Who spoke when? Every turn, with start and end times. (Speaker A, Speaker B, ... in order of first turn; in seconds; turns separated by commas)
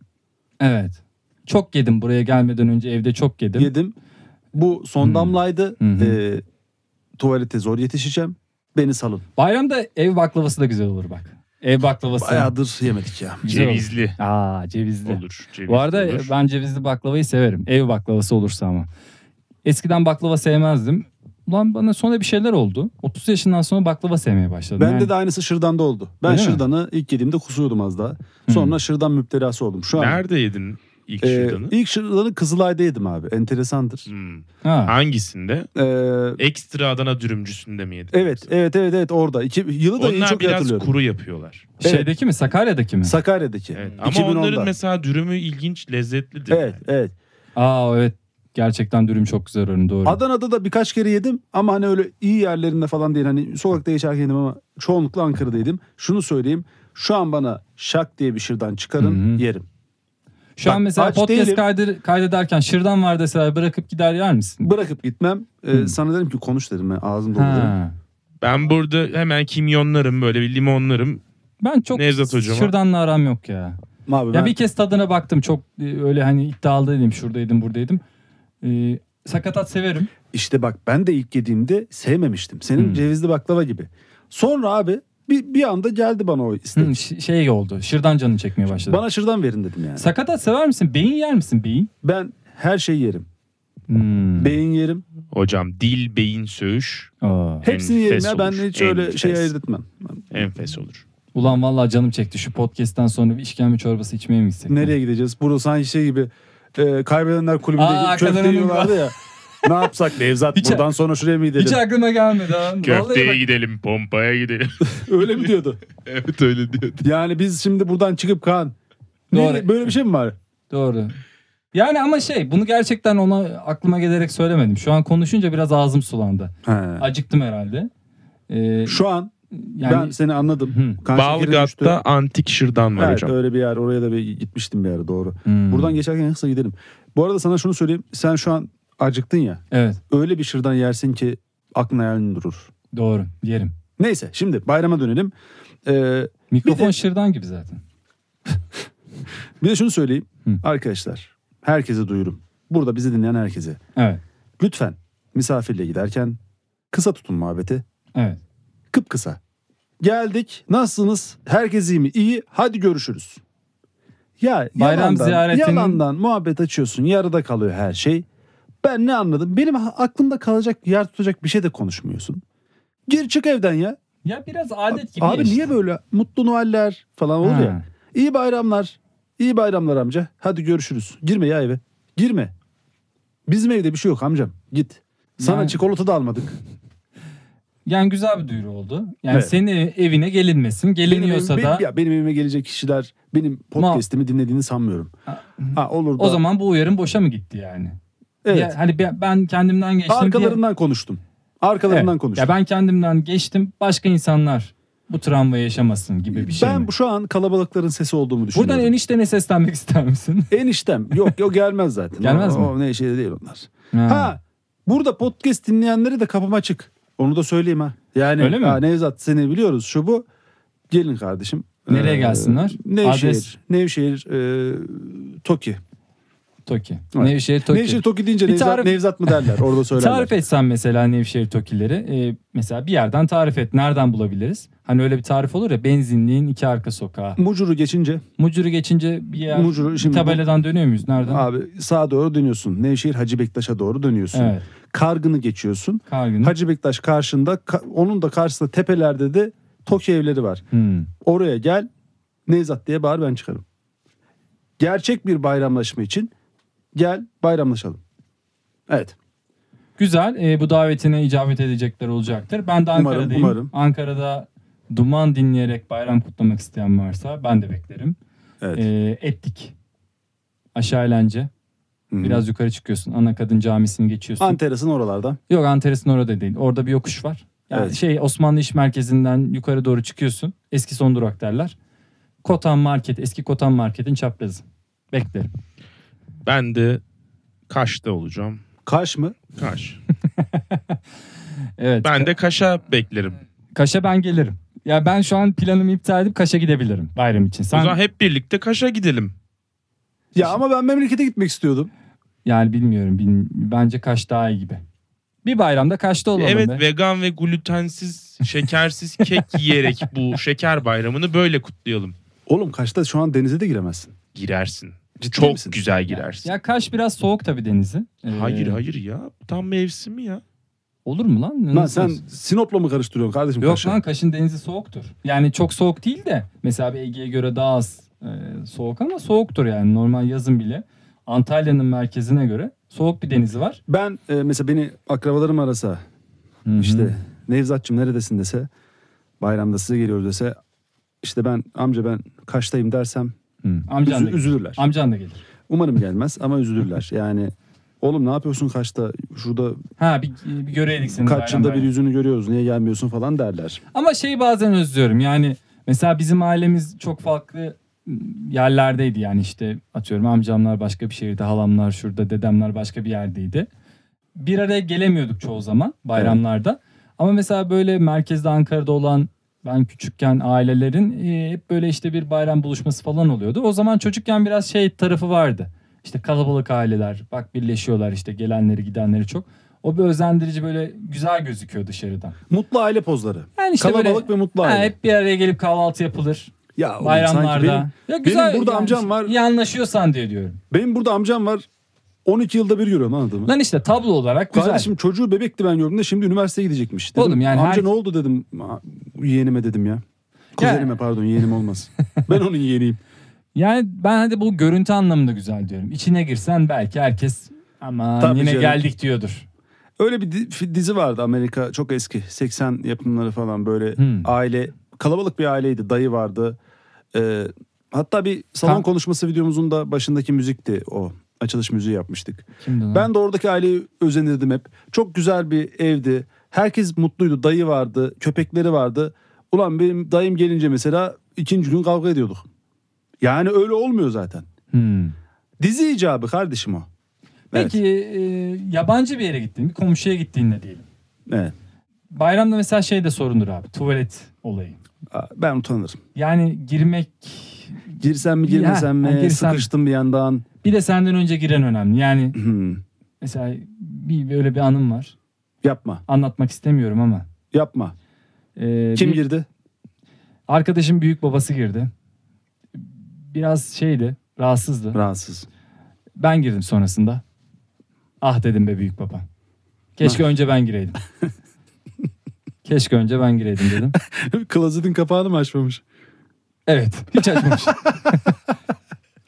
Speaker A: 0.6-3.7, Speaker B: 3.5-3.9, Speaker B: 4.5-6.4, Speaker A: 5.0-6.2, Speaker B: 7.2-9.2, Speaker A: 9.4-12.5, Speaker B: 12.1-13.4, Speaker A: 13.4-18.9, Speaker C: 13.4-14.2, Speaker C: 15.1-16.3, Speaker A: 19.6-25.1, Speaker B: 24.8-30.2, Speaker A: 26.2-26.6, Speaker A: 28.5-28.8, Speaker C: 29.9-31.8, Speaker B: 31.2-34.1, Speaker C: 34.1-35.7, Speaker A: 34.6-34.9, Speaker B: 35.8-36.4, Speaker C: 36.4-38.5, Speaker B: 38.1-40.9, Speaker C: 40.0-41.7, Speaker A: 41.8-43.2, Speaker B: 41.8-42.1, Speaker B: 43.0-44.7, Speaker C: 43.7-46.8, Speaker B: 46.5-47.1, Speaker A: 47.5-50.2, Speaker B: 50.0-59.6, Speaker A: 59.0-59.4, Speaker A: 60.5-64.7, Speaker B: 60.6-61.6, Speaker B: 64.6-67.8, Speaker A: 67.3-68.0, Speaker C: 68.4-71.2, Speaker A: 71.6-73.8, Speaker C: 71.9-72.7, Speaker B: 74.0-74.5, Speaker A: 74.3-78.0, Speaker A: 78.6-80.1, Speaker B: 80.3-87.0, Speaker A: 82.8-83.0, Speaker A: 86.7-89.0, Speaker B: 88.7-90.1, Speaker A: 90.0-91.9, Speaker B: 92.0-93.2, Speaker A: 93.9-94.6, Speaker B: 94.4-95.0, Speaker C: 95.3-97.1, Speaker A: 97.2-97.7, Speaker C: 97.6-99.5, Speaker B: 97.6-100.4, Speaker C: 100.3-101.0, Speaker A: 101.3-104.9, Speaker B: 104.7-111.8, Speaker A: 107.8-109.1, Speaker A: 110.5-110.9, Speaker A: 111.5-113.4, Speaker C: 112.7-117.0, Speaker B: 115.0-115.8, Speaker B: 117.0-118.7, Speaker B: 119.3-120.3, Speaker A: 119.3-119.9, Speaker A: 120.7-121.2, Speaker A: 121.7-127.9, Speaker B: 126.6-127.1, Speaker A: 128.5-130.2, Speaker B: 128.9-129.3, Speaker B: 129.8-132.0, Speaker A: 130.7-131.0, Speaker C: 131.1-133.3, Speaker B: 132.9-142.7, Speaker A: 135.4-136.0, Speaker A: 139.7-140.0, Speaker A: 142.9-143.7, Speaker B: 144.0-145.3, Speaker B: 145.8-147.0, Speaker A: 146.5-147.8, Speaker B: 149.6-153.8, Speaker A: 153.9-154.2, Speaker B: 154.6-156.4, Speaker B: 156.9-157.8, Speaker A: 158.1-158.4, Speaker B: 158.9-159.4, Speaker B: 160.0-163.4, Speaker B: 164.4-168.2, Speaker A: 164.8-166.0, Speaker B: 168.8-172.4, Speaker B: 173.1-174.0, Speaker A: 174.2-175.7, Speaker B: 174.9-182.5, Speaker A: 177.4-177.8, Speaker B: 183.5-186.6, Speaker A: 185.4-185.8, Speaker A: 187.8-191.9, Speaker B: 191.1-195.1, Speaker A: 193.8-194.0, Speaker A: 195.3-197.9, Speaker B: 195.7-196.4, Speaker B: 198.4-198.7, Speaker A: 198.5-200.6, Speaker B: 200.1-202.5, Speaker A: 201.8-206.9, Speaker B: 206.3-208.9, Speaker A: 208.5-210.6, Speaker B: 210.5-220.2, Speaker A: 212.2-212.7, Speaker A: 213.9-214.3, Speaker A: 218.4-218.8, Speaker B: 220.9-225.8, Speaker A: 221.9-223.5, Speaker A: 226.6-237.4, Speaker B: 227.1-230.3, Speaker B: 237.4-238.2, Speaker A: 238.4-241.4, Speaker B: 239.4-240.4, Speaker B: 241.2-250.6, Speaker A: 244.3-244.7, Speaker A: 246.1-246.6, Speaker A: 250.7-251.1, Speaker B: 251.2-251.9, Speaker B: 252.5-253.6, Speaker B: 254.8-256.3, Speaker B: 256.9-258.0, Speaker B: 258.9-259.1, Speaker A: 260.0-268.2, Speaker B: 262.9-263.7, Speaker B: 268.6-268.9, Speaker A: 268.7-269.7, Speaker A: 270.7-271.5, Speaker B: 272.1-272.4, Speaker A: 272.2-274.6, Speaker B: 274.4-275.4, Speaker A: 275.5-281.7, Speaker B: 277.7-278.0, Speaker A: 282.4-285.5, Speaker C: 286.4-287.0, Speaker C: 287.7-288.6, Speaker B: 288.9-289.4, Speaker C: 289.6-290.0, Speaker A: 290.4-290.9, Speaker A: 291.8-292.3, Speaker C: 292.0-293.4, Speaker A: 293.7-298.0, Speaker C: 297.7-299.3, Speaker B: 300.3-301.9, Speaker A: 302.4-304.8, Speaker A: 305.4-306.8, Speaker C: 306.4-312.1, Speaker B: 312.5-314.1, Speaker C: 314.3-316.5, Speaker B: 315.2-315.8, Speaker A: 316.1-318.8, Speaker C: 318.3-320.4, Speaker A: 321.0-322.2, Speaker B: 321.7-324.0, Speaker A: 323.6-333.8, Speaker B: 333.9-336.0, Speaker A: 336.6-337.1, Speaker B: 336.8-338.7, Speaker B: 339.4-340.6, Speaker B: 341.2-343.3, Speaker A: 343.6-345.4, Speaker B: 344.0-344.8, Speaker B: 345.7-349.8, Speaker A: 350.0-351.9, Speaker B: 351.1-353.8, Speaker A: 353.9-363.7, Speaker A: 364.4-382.4, Speaker B: 382.5-384.9, Speaker A: 383.6-390.6, Speaker B: 386.8-389.3, Speaker B: 390.7-391.6, Speaker B: 392.2-393.5, Speaker A: 393.4-394.9, Speaker B: 394.5-400.0, Speaker A: 397.1-397.9, Speaker A: 400.6-400.9, Speaker B: 400.6-403.0, Speaker A: 403.5-409.4, Speaker B: 408.2-408.8, Speaker B: 410.0-416.6, Speaker A: 414.0-414.3, Speaker B: 417.1-432.4, Speaker A: 422.6-423.1, Speaker B: 433.2-434.4, Speaker A: 434.7-435.1, Speaker B: 435.6-436.9, Speaker B: 437.5-437.8, Speaker A: 437.5-440.8, Speaker B: 441.3-441.5, Speaker A: 442.1-444.8, Speaker B: 445.1-446.0, Speaker A: 446.1-449.7, Speaker B: 448.0-450.4, Speaker A: 450.6-452.4, Speaker B: 452.3-452.8, Speaker A: 453.2-455.1, Speaker B: 455.6-456.0, Speaker A: 456.1-457.2, Speaker B: 457.5-457.9, Speaker A: 458.6-459.2, Speaker B: 458.9-459.4, Speaker A: 460.5-461.9, Speaker A: 463.3-465.0, Speaker B: 464.9-465.5, Speaker A: 466.2-467.2, Speaker A: 468.2-469.2, Speaker A: 469.9-471.0, Speaker A: 472.6-473.9, Speaker B: 474.0-475.8, Speaker A: 476.6-478.1